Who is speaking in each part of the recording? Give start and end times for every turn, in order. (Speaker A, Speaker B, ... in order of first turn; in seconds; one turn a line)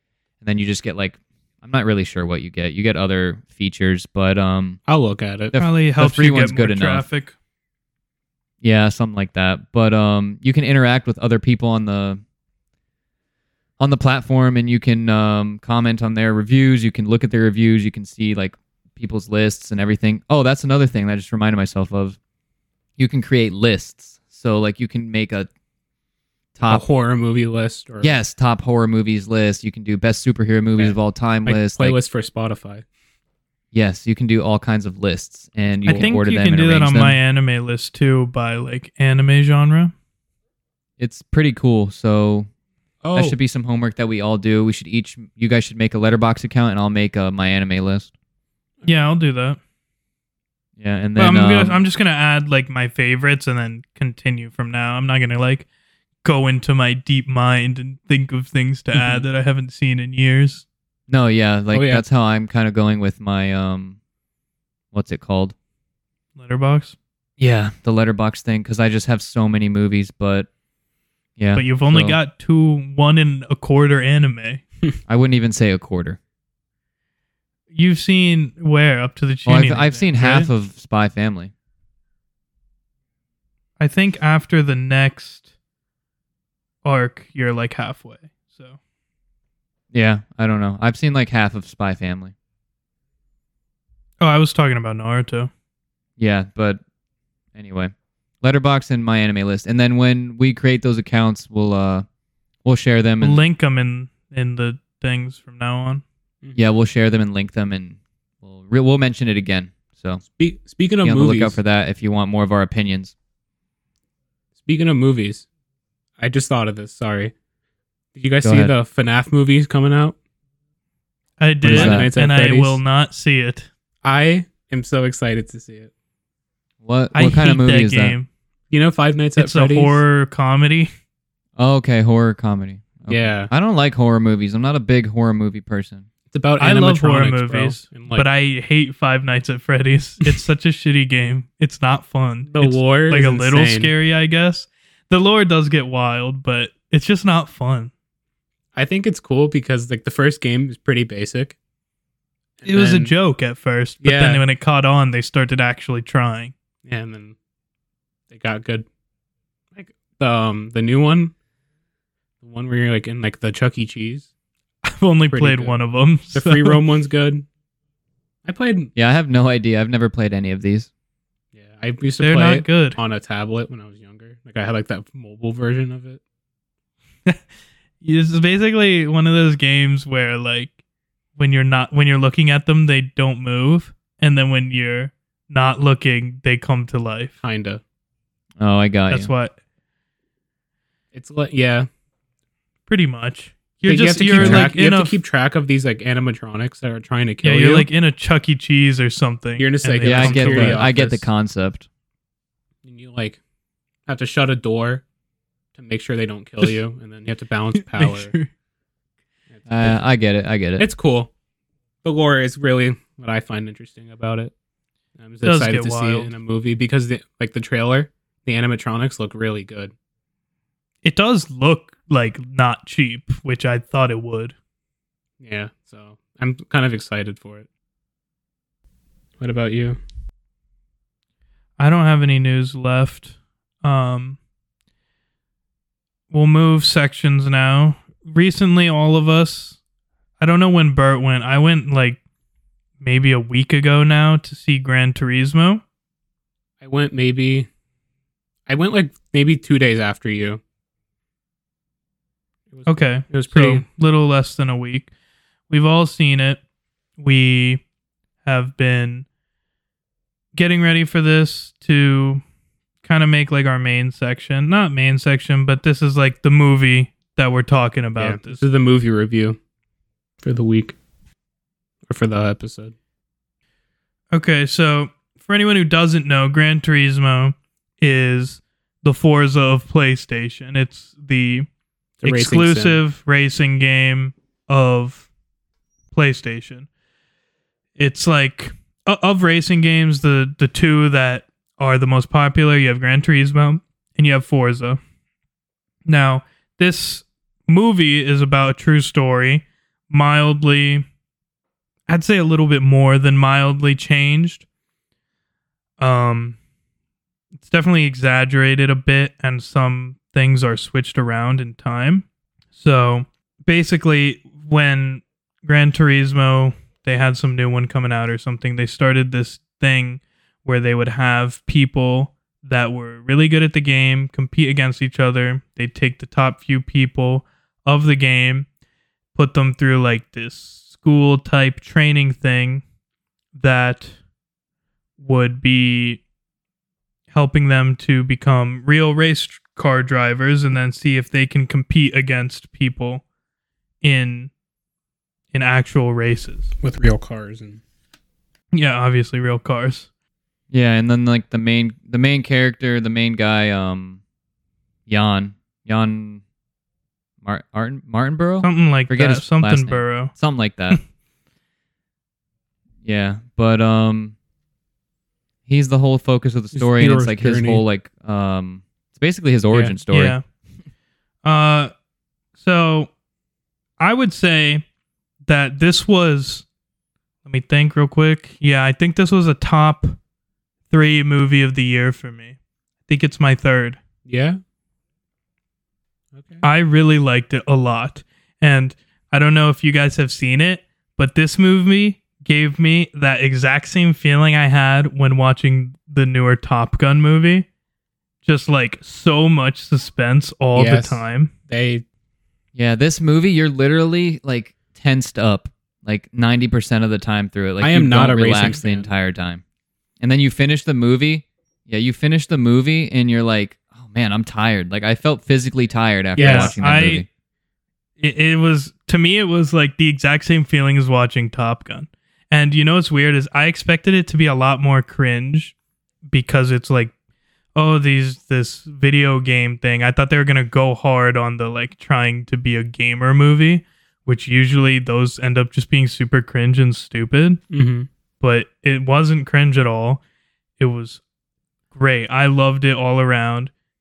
Speaker A: 0.4-4.8
Speaker B: 4.9-5.5
Speaker A: 5.5-7.1
Speaker C: 5.6-7.3
Speaker A: 8.6-12.2
Speaker A: 13.8-22.2
Speaker A: 23.0-25.5
Speaker A: 26.6-26.8
Speaker B: 26.7-28.2
Speaker A: 28.0-32.0
Speaker B: 30.8-32.9
Speaker A: 33.7-37.2
Speaker B: 35.8-36.1
Speaker C: 35.9-39.9
Speaker A: 41.0-42.5
Speaker B: 43.0-43.4
Speaker A: 43.1-48.1
Speaker C: 48.9-49.6
Speaker A: 50.8-51.8
Speaker C: 51.2-55.7
Speaker C: 56.2-60.6
Speaker B: 58.9-59.3
Speaker A: 61.1-64.0
Speaker B: 61.7-62.0
Speaker A: 64.9-65.5
Speaker C: 66.4-67.0
Speaker A: 67.4-70.5
Speaker A: 71.4-72.2
Speaker C: 71.5-74.6
Speaker A: 75.1-76.2
Speaker C: 77.7-80.5
Speaker A: 79.5-81.5
Speaker C: 83.8-85.5
Speaker C: 86.8-88.8
Speaker A: 89.9-92.3
Speaker C: 94.2-95.5
Speaker A: 96.2-96.8
Speaker A: 97.5-102.1
Speaker A: 102.7-103.4
Speaker C: 103.2-106.0
Speaker A: 106.5-110.2
Speaker B: 110.2-111.6
Speaker A: 111.0-113.1
Speaker B: 114.6-115.5
Speaker B: 116.2-117.3
Speaker B: 118.2-120.2
Speaker A: 118.4-118.7
Speaker C: 121.4-123.7
Speaker A: 121.6-122.1
Speaker B: 121.7-122.8
Speaker B: 124.0-125.9
Speaker A: 126.8-128.2
Speaker C: 127.2-128.3
Speaker B: 128.7-130.0
Speaker C: 129.4-130.9
Speaker A: 131.6-136.1
Speaker B: 133.1-133.5
Speaker B: 136.3-138.2
Speaker C: 136.6-147.9
Speaker B: 142.5-143.9
Speaker B: 148.8-151.6
Speaker B: 152.6-153.1
Speaker C: 152.7-156.5
Speaker B: 154.0-154.4
Speaker B: 156.8-157.4
Speaker B: 158.3-158.9
Speaker B: 159.8-161.3
Speaker B: 162.4-164.3
Speaker C: 164.8-166.8
Speaker B: 165.3-165.8
Speaker B: 166.3-167.5
Speaker B: 168.4-168.9
Speaker A: 169.0-170.9
Speaker B: 171.6-176.2
Speaker C: 172.2-173.0
Speaker C: 178.0-180.8
Speaker C: 181.4-187.4
Speaker B: 187.4-187.8
Speaker A: 188.6-189.3
Speaker C: 189.1-189.6
Speaker B: 191.1-191.9
Speaker C: 192.9-195.2
Speaker B: 193.9-197.9
Speaker A: 194.3-194.7
Speaker C: 197.4-200.8
Speaker B: 199.6-201.3
Speaker A: 200.0-201.9
Speaker B: 202.8-203.4
Speaker B: 204.1-205.0
Speaker B: 205.8-208.3
Speaker C: 207.8-208.5
Speaker B: 209.5-210.0
Speaker A: 209.7-210.9
Speaker B: 210.8-211.3
Speaker B: 212.0-214.5
Speaker B: 215.2-219.9
Speaker C: 215.4-216.3
Speaker C: 221.0-224.6
Speaker B: 225.4-227.7
Speaker B: 229.4-230.0
Speaker C: 231.8-234.4
Speaker C: 236.3-239.8
Speaker C: 240.4-242.2
Speaker C: 243.0-245.8
Speaker B: 246.8-247.7
Speaker B: 248.7-250.6
Speaker B: 252.7-253.8
Speaker C: 252.9-255.1
Speaker C: 255.7-256.6
Speaker C: 257.2-257.8
Speaker C: 258.4-259.3
Speaker C: 260.5-262.4
Speaker C: 263.0-268.6
Speaker B: 268.2-269.6
Speaker B: 270.4-271.0
Speaker B: 272.1-272.9
Speaker C: 274.3-281.7
Speaker B: 282.2-283.0
Speaker C: 282.2-285.3
Speaker C: 286.1-286.9
Speaker C: 288.0-295.0
Speaker C: 296.1-301.1
Speaker C: 302.1-304.6
Speaker C: 306.0-306.6
Speaker C: 307.6-328.7
Speaker C: 329.4-332.8
Speaker C: 333.6-334.1
Speaker C: 335.2-336.2
Speaker C: 337.3-343.2
Speaker C: 344.0-344.5
Speaker C: 345.5-346.7
Speaker B: 346.8-347.8
Speaker C: 348.7-350.1
Speaker A: 350.7-354.2
Speaker A: 355.1-356.4
Speaker A: 357.4-361.0
Speaker C: 358.6-360.3
Speaker A: 363.0-364.4
Speaker A: 365.7-370.4
Speaker B: 366.7-367.8
Speaker C: 370.1-370.4
Speaker C: 371.4-371.9
Speaker C: 372.6-373.1
Speaker C: 374.0-374.9
Speaker C: 375.5-376.6
Speaker C: 377.4-380.2
Speaker C: 380.9-384.0
Speaker B: 384.3-384.6
Speaker B: 386.3-386.6
Speaker C: 386.6-397.7
Speaker C: 398.4-401.5
Speaker B: 400.8-402.0
Speaker A: 402.8-409.6
Speaker B: 407.8-409.1
Speaker A: 410.2-417.3
Speaker B: 416.4-416.8
Speaker C: 416.4-417.3
Speaker C: 418.2-425.8
Speaker C: 426.3-427.1
Speaker C: 427.8-437.6
Speaker B: 437.7-438.1
Speaker C: 438.4-440.2
Speaker C: 440.8-441.2
Speaker C: 441.9-443.7